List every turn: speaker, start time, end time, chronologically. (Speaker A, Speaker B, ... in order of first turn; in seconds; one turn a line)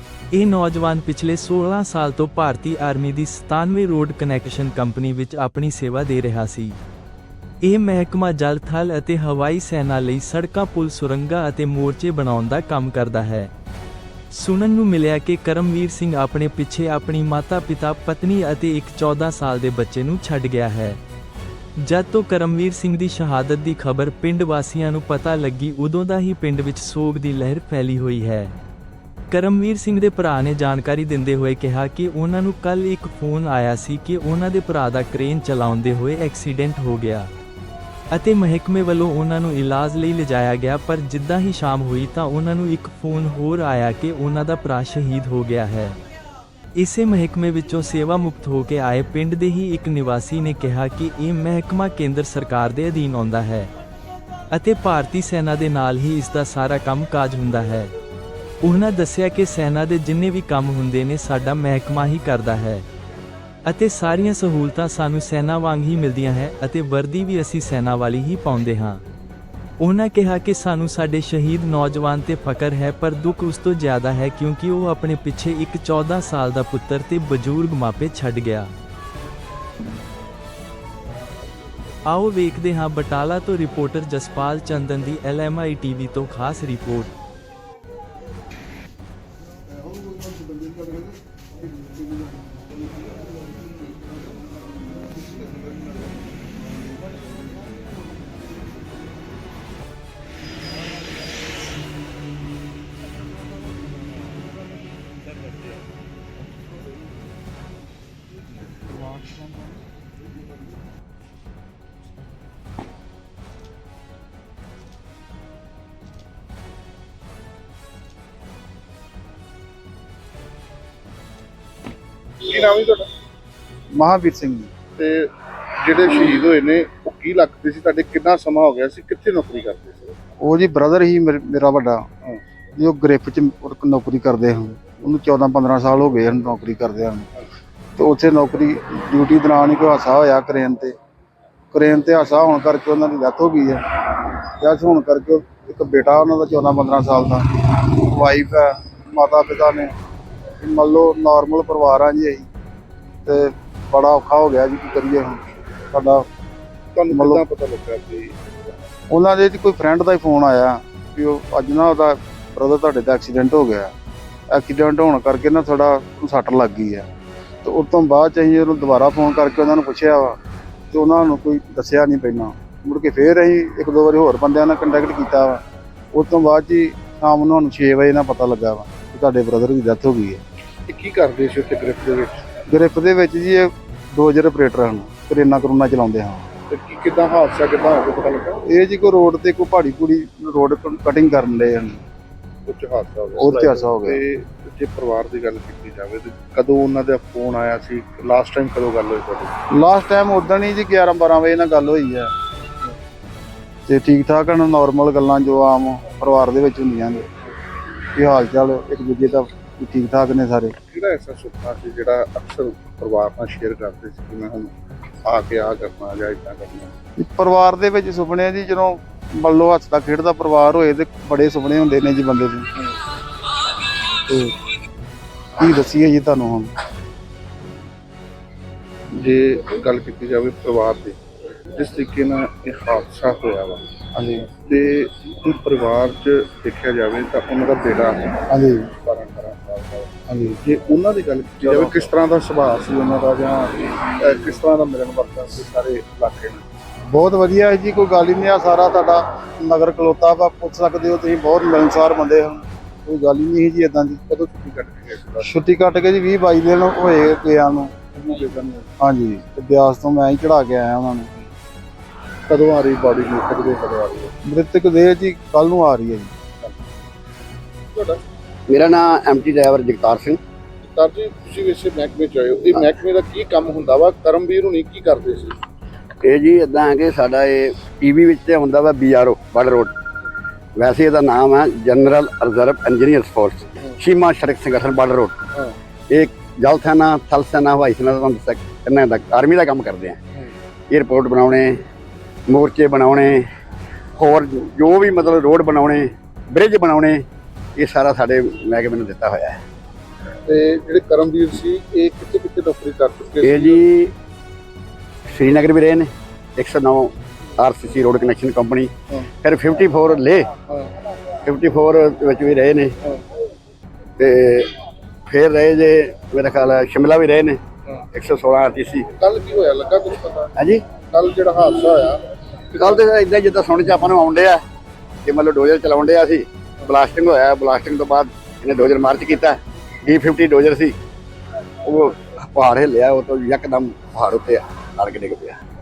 Speaker A: 0.3-6.8
Speaker A: 7.6-13.5
Speaker A: 14.3-21.0
Speaker A: 21.8-28.5
Speaker A: 29.3-37.3
Speaker A: 38.1-46.0
Speaker A: 46.7-53.7
Speaker A: 54.5-57.9
Speaker A: 58.6-62.9
Speaker A: 63.6-69.0
Speaker A: 69.8-78.7
Speaker A: 82.0-87.1
Speaker B: 89.9-91.0
Speaker B: 109.2-109.4
Speaker C: 122.4-123.1
Speaker B: 123.9-124.7
Speaker C: 125.0-130.1
Speaker B: 130.4-132.0
Speaker B: 132.8-137.3
Speaker B: 138.0-140.9
Speaker B: 141.7-143.8
Speaker B: 144.6-149.9
Speaker B: 150.6-152.5
Speaker B: 153.2-156.2
Speaker C: 156.9-158.4
Speaker B: 157.1-157.4
Speaker B: 159.1-163.9
Speaker B: 164.5-167.1
Speaker B: 167.6-170.4
Speaker B: 170.9-175.6
Speaker B: 176.1-180.4
Speaker C: 180.9-182.5
Speaker B: 182.7-186.4
Speaker C: 186.7-188.6
Speaker B: 188.6-192.0
Speaker C: 192.7-199.5
Speaker B: 193.3-194.2
Speaker B: 199.7-202.3
Speaker B: 203.9-207.2
Speaker B: 208.1-210.8
Speaker C: 210.9-214.7
Speaker C: 215.2-216.9
Speaker B: 217.2-222.7
Speaker B: 224.3-224.6
Speaker B: 225.6-226.7
Speaker C: 229.1-231.2
Speaker C: 231.7-233.8
Speaker B: 234.1-234.5
Speaker C: 234.6-246.6
Speaker B: 238.5-238.9
Speaker B: 240.3-240.6
Speaker B: 241.6-241.9
Speaker B: 247.1-254.2
Speaker C: 254.3-255.5
Speaker B: 255.4-257.9
Speaker C: 258.1-258.9
Speaker B: 259.0-261.3
Speaker C: 262.5-264.3
Speaker B: 264.4-266.3
Speaker C: 267.9-268.2
Speaker D: 268.7-270.4
Speaker C: 270.8-275.6
Speaker D: 276.2-279.9
Speaker D: 280.8-285.4
Speaker D: 286.1-290.2
Speaker D: 290.9-291.8
Speaker D: 292.5-293.5
Speaker D: 294.1-297.2
Speaker D: 297.8-299.6
Speaker C: 300.4-303.8
Speaker D: 303.4-304.1
Speaker D: 305.3-310.5
Speaker D: 311.4-312.9
Speaker D: 314.2-314.7
Speaker D: 315.3-317.6
Speaker D: 318.1-319.1
Speaker C: 319.2-320.5
Speaker D: 320.6-320.8
Speaker C: 321.1-322.2
Speaker C: 322.7-323.0
Speaker D: 322.8-324.6
Speaker D: 325.2-330.9
Speaker D: 331.8-335.6